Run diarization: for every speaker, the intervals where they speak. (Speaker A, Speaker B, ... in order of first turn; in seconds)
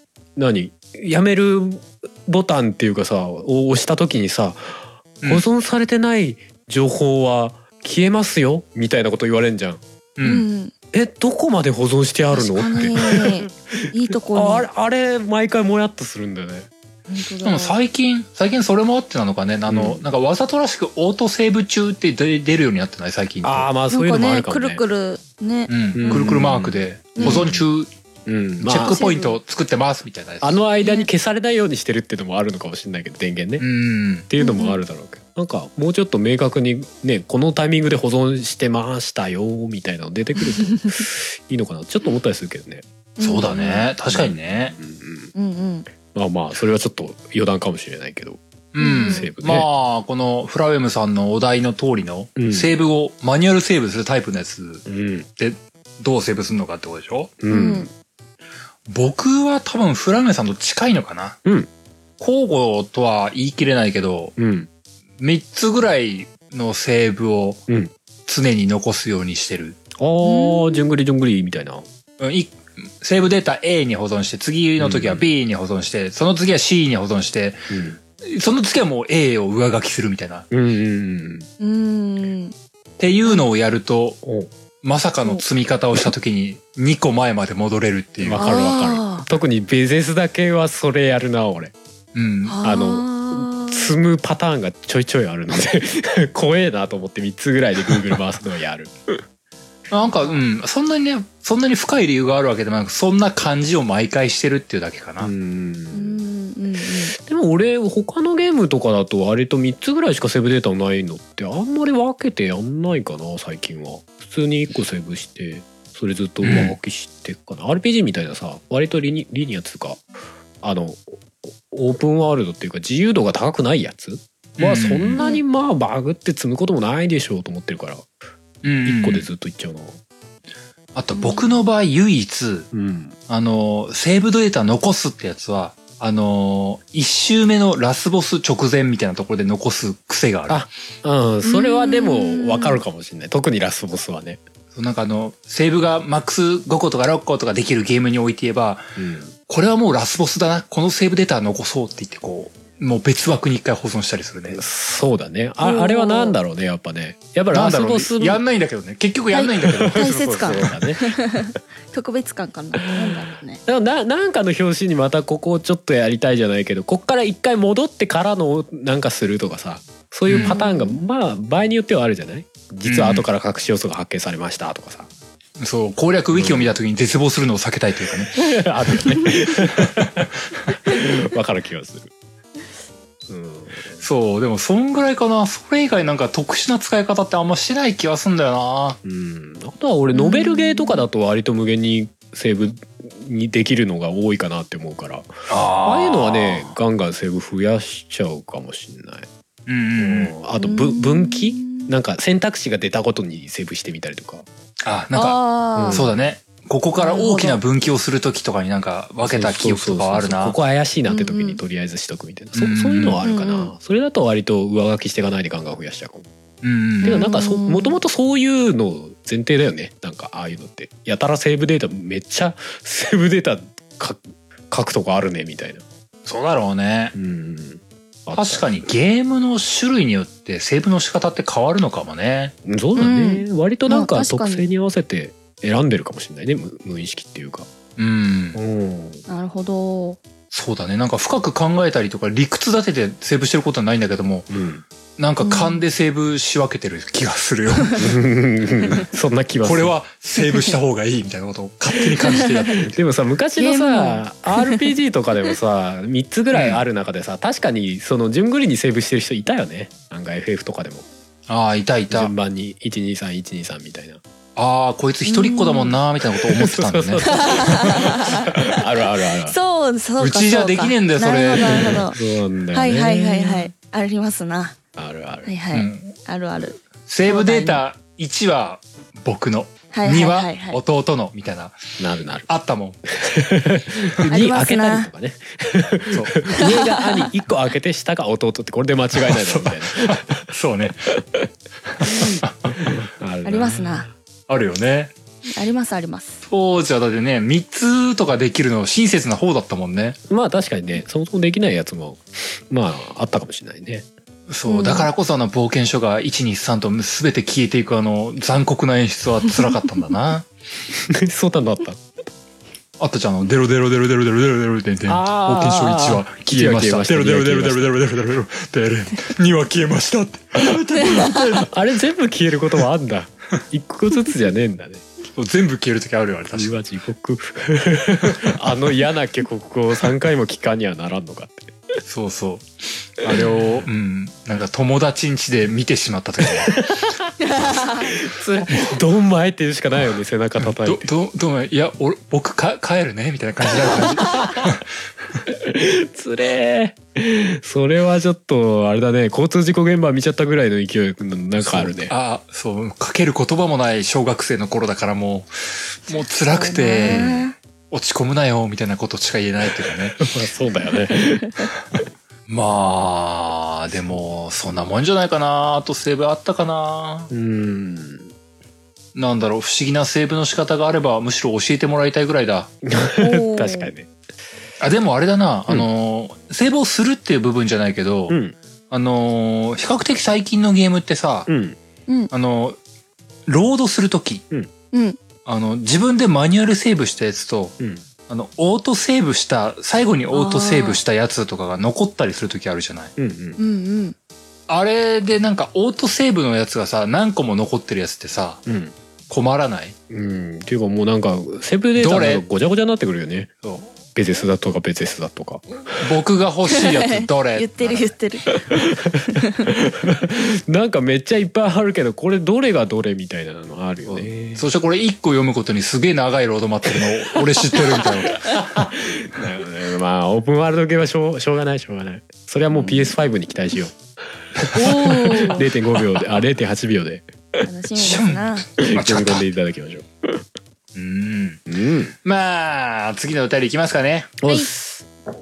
Speaker A: 0.4-9.8, 10.9-16.7, 19.7-20.1, 23.4-24.8, 25.9-27.6, 28.3-29.0, 30.4-33.7, 34.3-42.9, 44.1-45.3, 46.1-48.4, 48.9-49.7, 52.4-52.7, 54.9-55.3, 57.4-57.9, 61.5-61.7, 64.4-64.7, 70.0-71.8, 74.8-75.3, 77.7-78.0, 80.5-81.5, 84.2-84.5, 88.2-91.8, 92.6-99.2, 105.2-106.2, 107.2-120.1, 120.6-128.1, 128.8-130.0, 132.7-133.2, 140.5-144.4, 149.0-149.3, 154.5-158.4, 159.6-161.2, 162.9-175.1, 176.3-176.8, 178.3-180.3, 180.8-182.1, 183.3-184.0, 189.0-199.3, 200.0-204.5, 205.8-206.2, 209.2-216.3, 217.0-225.8, 227.2-228.7, 232.7-237.7, 238.6-239.2, 244.5-244.8, 248.0-249.9, 252.8-261.1, 262.1-264.2, 266.4-269.6, 271.7-273.7, 275.0-275.5, 282.0-282.5, 283.1-290.5, 291.2-291.5, 292.0-294.1, 300.3-304.1, 310.9-312.0, 315.1-317.9, 321.6-325.1, 326.6-331.8, 333.2-333.7, 336.4-341.1, 343.7-344.7, 345.5-352.1, 357.1-357.3, 359.7-362.0, 367.3-368.3, 372.9-374.1, 378.3-378.6, 381.5-381.8, 393.2-393.6, 398.7-398.9, 400.1-403.5, 404.1-406.0, 408.5-414.6, 416.9-427.7, 428.8-430.4, 431.7-432.1, 434.4-435.1
Speaker B: 10.2-10.5, 17.4-23.7, 25.7-27.9, 28.6-30.6, 33.6-34.3, 43.2-44.8, 48.7-54.9, 55.4-57.3, 58.9-61.4, 62.2-64.4, 65.2-67.6, 68.3-69.8, 72.2-77.7, 78.2-80.5, 83.0-84.2, 84.8-88.5, 92.2-92.6, 99.9-105.3, 116.4-116.8, 124.6-125.2, 128.6-129.3, 130.9-132.7, 133.3-140.7, 144.8-148.8, 149.5-154.6, 157.5-160.7, 170.3-170.6, 172.8-173.3, 175.6-178.4, 179.7-180.1, 184.0-189.0, 195.5-196.8, 199.7-200.3, 204.8-210.6, 212.6-213.2, 216.6-217.2, 226.3-227.2, 228.3-232.5, 238.0-238.6, 240.5-244.5, 245.2-248.1, 249.6-252.9, 256.5-256.8, 261.5-262.3, 264.6-268.2, 270.2-272.0, 275.7-276.1, 277.1-282.0, 282.5-283.0, 286.1-286.4, 289.2-291.2, 291.9-293.0, 294.5-295.1, 296.4-300.2, 304.5-310.5, 313.0-321.7, 325.4-326.8, 332.1-332.7, 333.2-336.9, 338.7-339.0, 340.6-344.9, 351.6-360.3, 362.5-367.3, 369.1-372.7, 374.8-378.4, 378.9-381.5, 382.3-382.8, 383.5-384.4, 385.5-387.8, 388.3-393.1, 394.7-398.6, 399.3-399.9, 402.0-402.4, 406.0-408.1, 414.1-418.8, 424.6-425.1, 428.0-429.5, 430.9-431.6, 432.2-434.4
Speaker C: 10.2-10.7, 12.3-14.7, 17.1-17.8, 23.9-26.4, 27.2-27.5, 28.8-29.4, 30.8-31.1, 34.4-34.8, 43.2-43.9, 45.3-45.9, 48.8-49.3, 57.5-57.9, 70.2-70.9, 81.6-82.5, 88.4-89.3, 92.5-93.9, 100.1-100.4, 105.9-107.2, 131.1-131.5, 141.4-142.8, 155.6-156.4, 159.3-163.6, 170.3-171.0, 190.1-191.1, 200.6-201.9, 205.1-206.1, 207.0-207.6, 211.1-211.6, 213.2-213.7, 217.0-218.0, 233.0-234.7, 239.3-240.2, 245.4-245.8, 253.6-254.9, 265.2-266.0, 267.2-272.2, 272.7-274.8, 275.4-277.8, 279.9-280.8, 284.3-285.1, 286.5-287.3, 293.4-294.1, 295.5-296.4, 304.7-305.1, 337.4-338.1, 356.5-357.6, 373.2-373.9, 384.9-385.2, 390.3-391.0, 393.6-394.2, 406.7-409.7, 422.7-423.1, 424.7-425.7, 427.6-428.7